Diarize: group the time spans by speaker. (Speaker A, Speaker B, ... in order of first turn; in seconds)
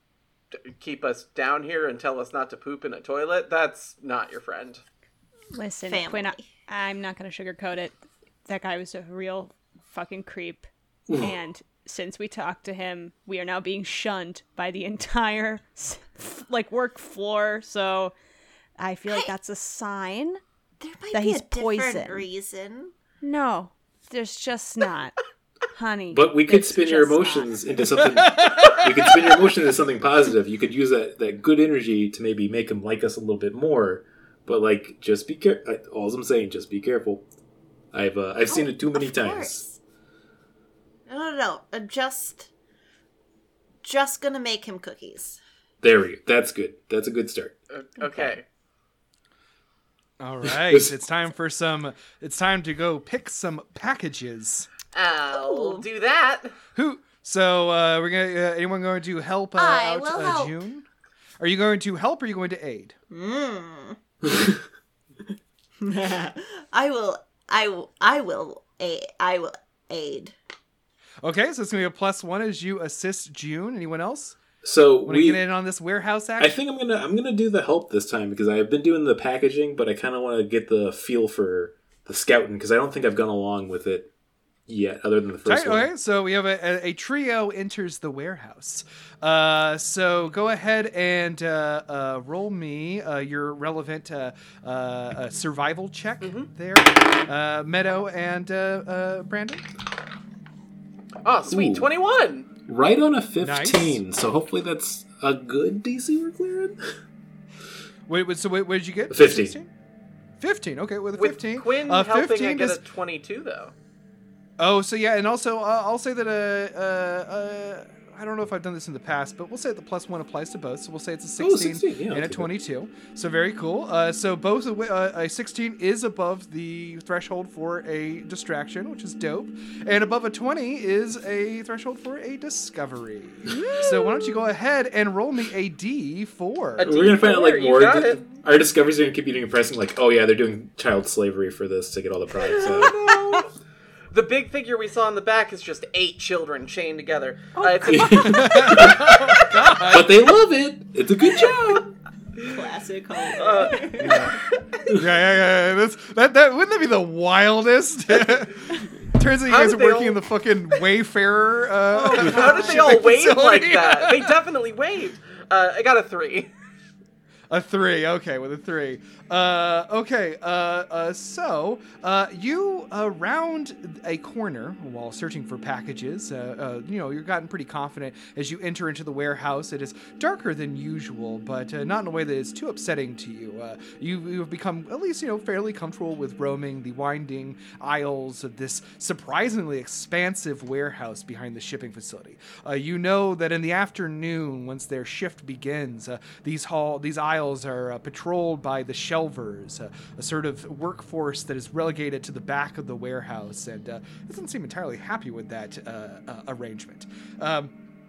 Speaker A: 0.7-4.8, 47.7-48.5, 54.9-56.5, 96.2-96.5, 101.2-102.5, 111.2-113.7, 136.8-138.3, 142.6-143.5, 144.1-149.6, 153.3-154.3, 159.5-160.2, 162.1-166.5
Speaker B: 5.5-18.1, 18.8-20.4, 21.1-22.3, 23.2-25.1, 25.7-27.6, 133.6-134.2, 147.6-148.8
Speaker C: 5.9-6.5, 20.8-22.9, 38.5-39.8, 41.1-42.5, 43.8-45.4, 55.3-55.9, 59.6-60.5, 63.1-64.0, 65.8-70.3, 152.4-154.8, 162.0-163.1
Speaker D: 11.1-11.3, 26.1-37.2, 37.9-39.6, 45.8-47.6, 74.6-75.4, 76.4-84.1, 84.7-85.9, 101.5-101.9, 102.7-106.8, 109.1-109.5, 121.4-122.5, 136.8-143.1, 147.9-149.1, 149.8-151.9
Speaker E: 28.2-28.9, 50.2-54.7, 56.8-60.9, 61.4-63.0, 71.2-74.4, 75.0-76.6, 85.5-99.6, 103.4-104.0, 108.1-109.7, 110.4-112.8, 114.6-136.9, 143.1-143.4, 148.3-150.2, 154.0-154.3, 155.0-164.3, 167.5-207.7